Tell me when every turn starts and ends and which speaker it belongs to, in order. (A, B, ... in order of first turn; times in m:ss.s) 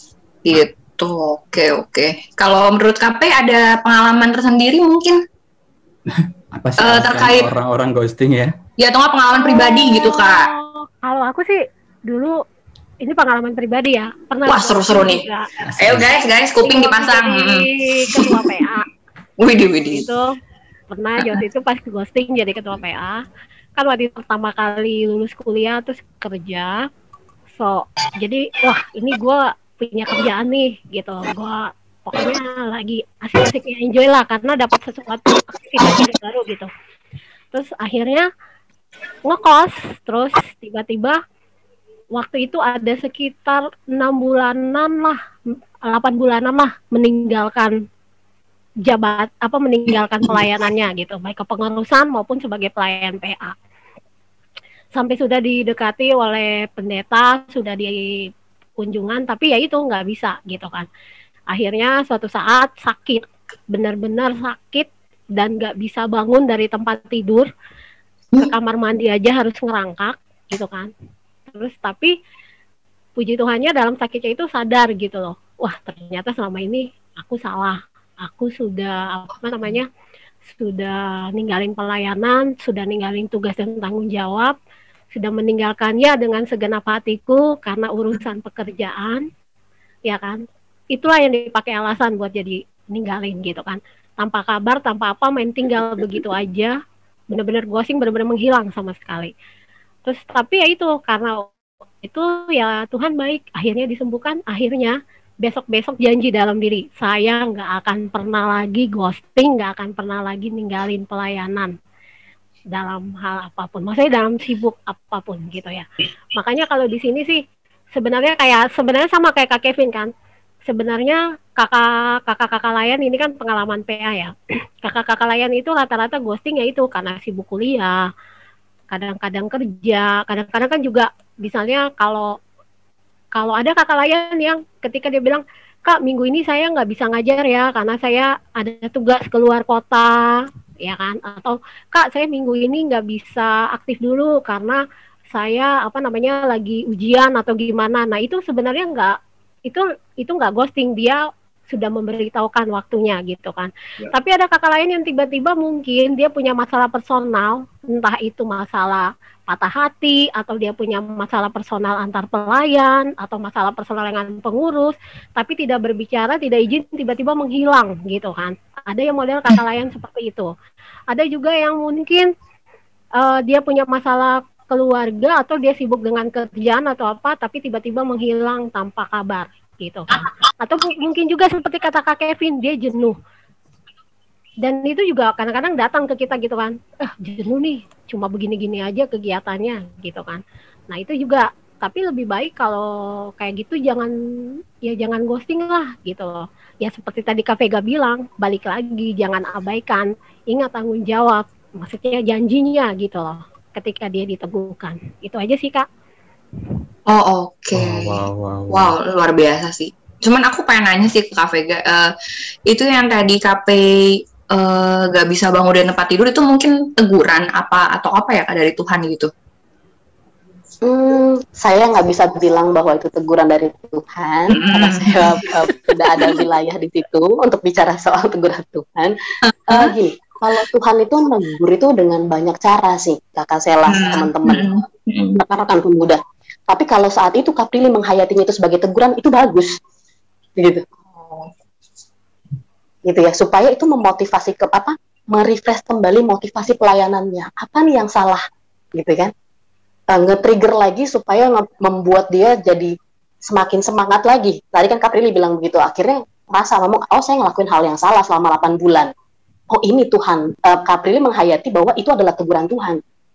0:00.5-0:05.2 A
0:06.1-0:08.5 B
0:06.8-0:07.5 A
0:08.8-0:10.5 A
0:09.4-0:12.4 C
0:13.0-0:15.5 C
0:14.5-0:15.2 A
0:15.6-0:16.1 B
0:15.8-0:18.7 A
0:16.6-0:18.9 C
0:19.4-0:20.1 A
0:19.9-0:20.3 C
0:20.9-0:23.2 C
0:23.8-0:26.8 C
0:27.6-0:36.7 C
0:37.5-0:38.3 C
0:39.3-0:41.2 C
0:42.2-0:45.2 C
0:45.9-0:47.7 C
0:48.8-0:53.6 C
0:55.0-0:58.0 C
0:58.8-1:00.9 C
1:01.5-1:07.5 C
1:08.4-1:10.9 C
1:11.5-1:12.1 C
1:13.2-1:19.9 C
1:20.6-1:24.5 C
1:25.2-1:29.2 C
1:30.1-1:30.4 C
1:30.9-1:36.8 C
1:37.3-1:39.3 C
1:40.0-1:41.5 C
1:42.0-1:51.7 C
1:52.7-1:57.4 C
1:58.0-2:00.1 C
2:00.7-2:08.0 C
2:08.9-2:12.3 C
2:13.4-2:24.8 C
2:25.3-2:29.2 C
2:29.7-2:50.5 C
2:51.1-2:52.3 C
2:53.2-3:03.2 C
3:04.6-3:12.8 C
3:13.4-3:14.1 C
3:14.8-3:25.9 C
3:27.1-3:32.1 A
3:27.7-3:29.0 B
3:32.7-3:39.3 A
3:40.8-3:49.2 D
3:44.5-3:45.5 A
3:46.2-3:46.4 A
3:49.5-3:49.9 A
3:49.7-3:54.7 D
3:53.9-3:55.4 A
3:55.4-3:59.7 D
4:00.6-4:00.8 D
4:01.2-4:01.5 A
4:03.1-4:08.4 D
4:09.0-4:09.3 D
4:10.1-4:12.9 D
4:13.5-4:19.1 D
4:19.7-4:23.0 D